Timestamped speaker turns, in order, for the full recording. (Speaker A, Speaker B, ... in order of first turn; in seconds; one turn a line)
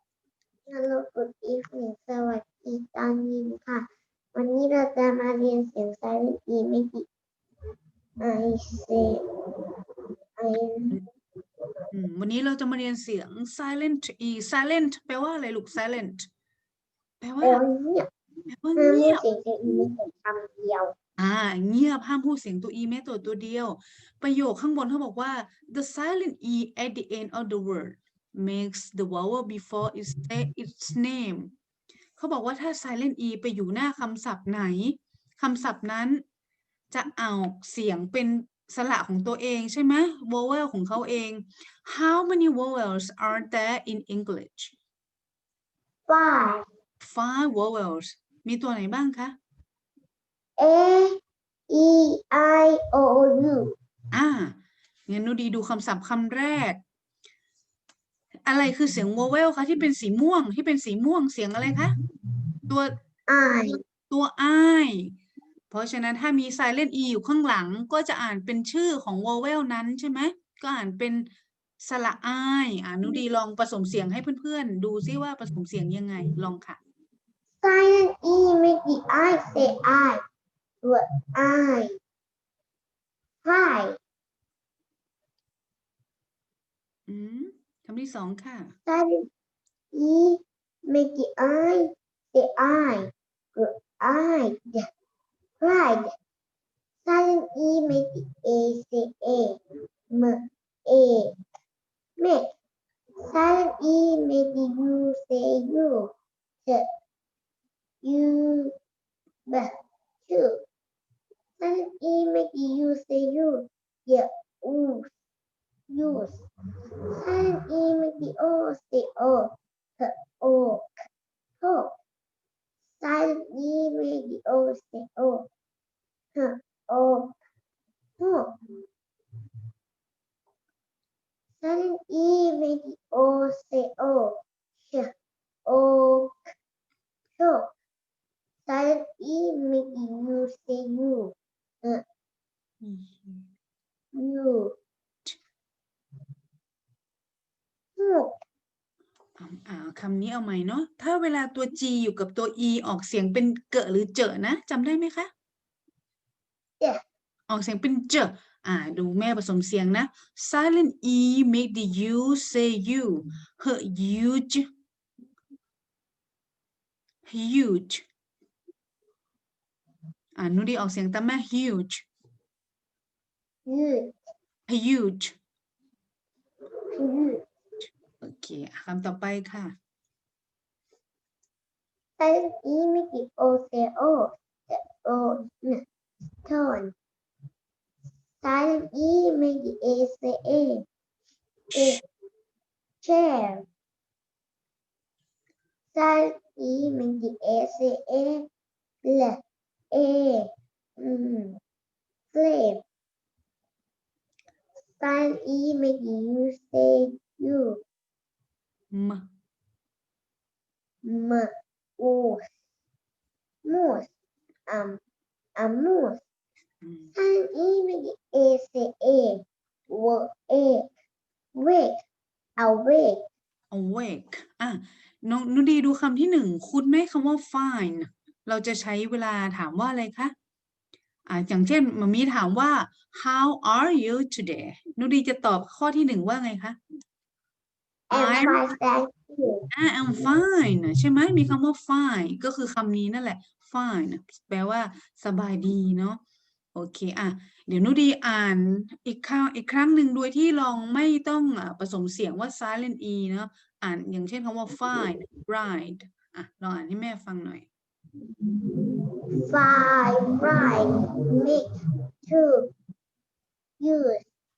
Speaker A: 0.7-7.0
Speaker A: 8.2-9.2
Speaker A: 10.4-11.0
Speaker B: 11.9-16.3
Speaker B: 17.2-17.6
Speaker A: 17.4-18.1
Speaker B: 18.5-19.2
Speaker A: 18.8-20.9
Speaker B: 21.2-31.5
Speaker B: 32.2-36.2
Speaker B: 36.9-44.7
Speaker A: 46.1-46.6
Speaker B: 47.0-49.3
Speaker A: 50.6-51.2
Speaker A: 51.7-53.7
Speaker B: 54.1-54.5
Speaker B: 55.1-56.8
Speaker B: 58.5-61.9
Speaker A: 63.3-63.8
Speaker B: 64.1-65.1
Speaker B: 65.7-71.3
Speaker B: 71.8-76.8
Speaker A: 77.6-80.2
Speaker A: 80.8-82.0
Speaker A: 83.4-84.0
Speaker B: 87.1-88.7
Speaker A: 88.9-89.2
Speaker A: 89.9-94.8
Speaker A: 95.6-96.1
Speaker A: 97.0-99.6
Speaker A: 100.1-101.3
Speaker A: 102.2-102.5
Speaker A: 103.2-106.1
Speaker A: 108.0-108.7
Speaker A: 110.3-110.6
Speaker A: 111.6-115.1
Speaker A: 115.9-116.5
Speaker A: 117.2-120.9
Speaker A: 121.6-121.9
Speaker A: 123.0-125.5
Speaker A: 126.3-127.3
Speaker A: 128.2-128.5
Speaker A: 131.6-135.1
Speaker A: 135.7-136.4
Speaker A: 137.4-137.7
Speaker A: 138.7-142.0
Speaker B: 142.8-143.5
Speaker A: 144.1-144.8
Speaker A: 148.0-148.3
Speaker B: 149.4-155.3
Speaker B: 157.5-164.7
Speaker B: 167.3-168.0
Speaker B: 170.4-172.0
Speaker A: 173.7-174.2
Speaker B: 174.7-175.3
Speaker A: 176.9-177.4
Speaker B: 178.2-179.7
Speaker A: 182.2-185.8
Speaker A: 186.4-186.9
Speaker A: 188.4-190.8
Speaker B: 191.7-192.0
Speaker A: 191.7-192.0
Speaker A: 193.0-193.7
Speaker A: 195.9-198.5
Speaker A: 199.0-199.4
Speaker A: 199.9-201.6
Speaker A: 202.3-202.8
Speaker A: 205.0-207.8
Speaker B: 208.9-209.2
Speaker A: 211.0-212.4
Speaker A: 213.6-214.1
Speaker A: 214.7-215.0
Speaker A: 215.6-216.2
Speaker B: 216.8-217.1
Speaker A: 217.1-220.9
Speaker A: 221.6-222.0
Speaker A: 222.6-223.2
Speaker B: 223.7-230.3
Speaker B: 231.3-236.8
Speaker A: 238.1-239.7
Speaker B: 238.1-238.6
Speaker B: 239.7-246.2
Speaker B: 246.7-257.7
Speaker A: 258.6-261.7
Speaker A: 262.2-262.7
Speaker A: 263.8-264.2